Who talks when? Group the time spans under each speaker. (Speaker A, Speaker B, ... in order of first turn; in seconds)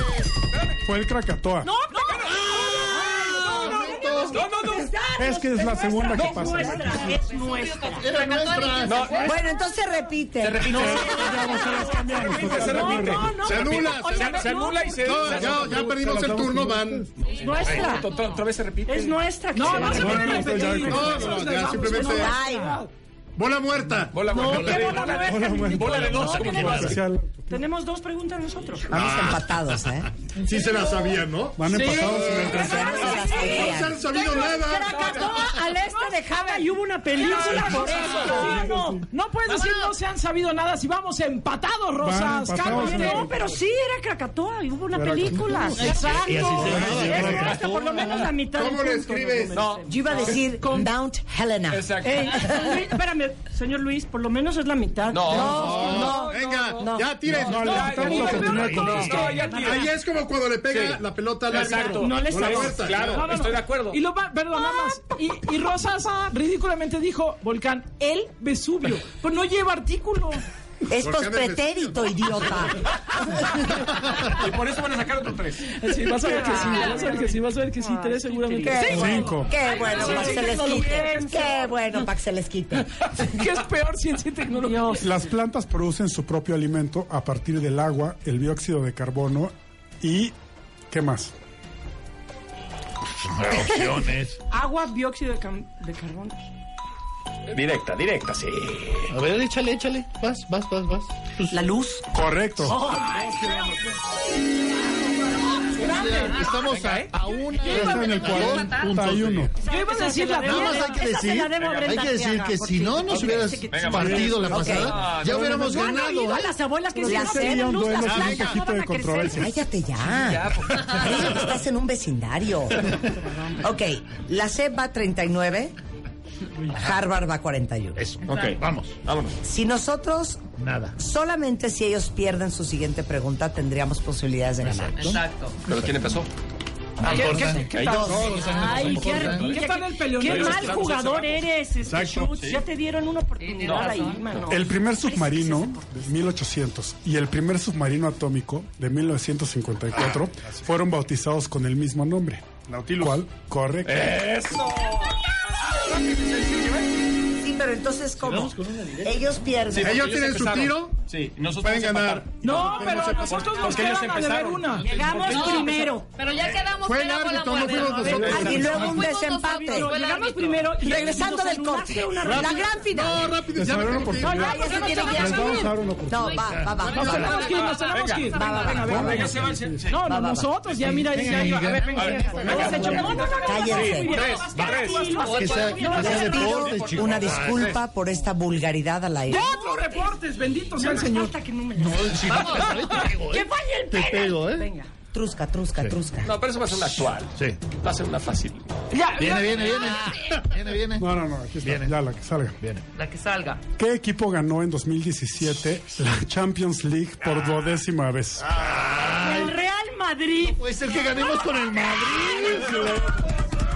Speaker A: 0.8-1.7, 5.2-7.2, 10.7-13.4, 15.3-17.1, 19.9-21.4, 25.1-27.6, 31.6-33.3, 38.3-39.0, 42.0-43.4, 44.9-47.6, 57.3-59.4, 78.9-79.5, 85.0-90.3, 90.9-91.3, 102.1-102.8, 107.6-109.5, 113.9-114.7, 117.0-119.5, 144.5-154.3, 173.5-176.4, 201.0-202.6, 203.8-208.5, 212.7-213.0
Speaker B: 1.6-8.2, 10.8-15.7, 17.3-18.1, 18.9-22.6, 24.2-26.9, 27.5-29.0, 30.6-31.1, 31.7-39.1, 42.5-50.9, 52.0-60.0, 61.5-63.5, 76.1-81.8, 84.5-85.2, 94.5-96.5, 102.6-103.8, 105.8-106.5, 109.5-119.5, 137.1-146.2, 162.4-164.3, 164.8-166.1, 167.8-173.3, 174.1-175.7, 178.9-179.3, 180.7-186.8, 189.3-194.9, 209.0-211.3
Speaker C: 2.1-3.1, 4.3-4.9, 8.8-9.3, 10.4-15.9, 17.2-19.9, 24.1-26.9, 49.5-50.4, 51.7-52.4, 55.1-59.9, 60.7-64.0, 74.2-75.7, 97.5-99.1, 106.6-107.1, 111.5-112.0, 113.2-115.5, 120.0-121.3, 128.2-129.3, 135.7-136.3, 137.1-141.4, 142.2-142.6, 143.6-144.5, 153.8-155.1, 159.7-165.8, 168.0-168.7, 177.5-178.3, 178.9-180.0, 181.9-187.8, 196.2-198.7
Speaker D: 3.6-4.3, 13.3-14.5, 15.0-17.1, 20.8-22.4, 23.4-24.2, 30.4-32.6, 33.5-35.3, 48.5-49.6, 55.7-57.8, 59.6-63.2, 71.0-72.5, 141.8-142.2, 152.7-153.2, 159.8-161.0, 161.6-163.6, 166.8-168.6, 172.3-174.5
Speaker E: 6.9-9.4, 17.2-18.2, 76.3-77.2, 78.3-78.7, 106.2-106.5, 107.5-109.0, 128.3-128.6, 135.0-135.6, 143.4-144.3, 165.3-170.7, 174.7-175.5, 176.1-178.1, 181.7-182.7, 185.2-185.9, 192.3-193.1, 199.4-200.3, 202.9-203.6
Speaker F: 8.0-9.1, 24.5-24.9, 26.5-26.9, 29.0-29.4, 45.8-48.2, 93.3-94.4, 99.1-101.6, 105.8-109.5, 110.4-116.5, 128.0-128.9, 130.6-130.9, 134.6-135.2, 137.0-139.5, 158.2-159.2, 176.4-176.8, 180.8-183.1, 184.6-187.8, 191.8-194.7, 197.3-197.6, 199.1-201.1, 201.6-201.9, 208.4-209.6, 210.4-212.9
Speaker G: 9.2-11.2, 22.0-22.8, 28.9-30.1, 32.3-34.6, 49.9-52.7, 55.3-56.3, 70.9-72.8, 78.6-82.9, 101.5-102.0, 114.5-114.9, 117.0-117.9, 119.3-122.9, 123.6-125.7, 126.7-128.0, 129.4-130.4, 131.0-135.2, 157.4-160.1, 168.2-169.9, 170.8-173.3, 174.3-177.4, 178.3-179.3, 180.1-180.5, 183.4-184.1, 185.9-189.5, 195.1-196.3
Speaker H: 19.5-22.9, 34.8-43.3, 63.9-70.4, 75.8-79.3, 80.0-80.5, 83.2-85.0, 109.7-111.0, 137.1-138.5, 139.5-141.2, 162.4-165.8, 176.8-183.4, 189.3-191.3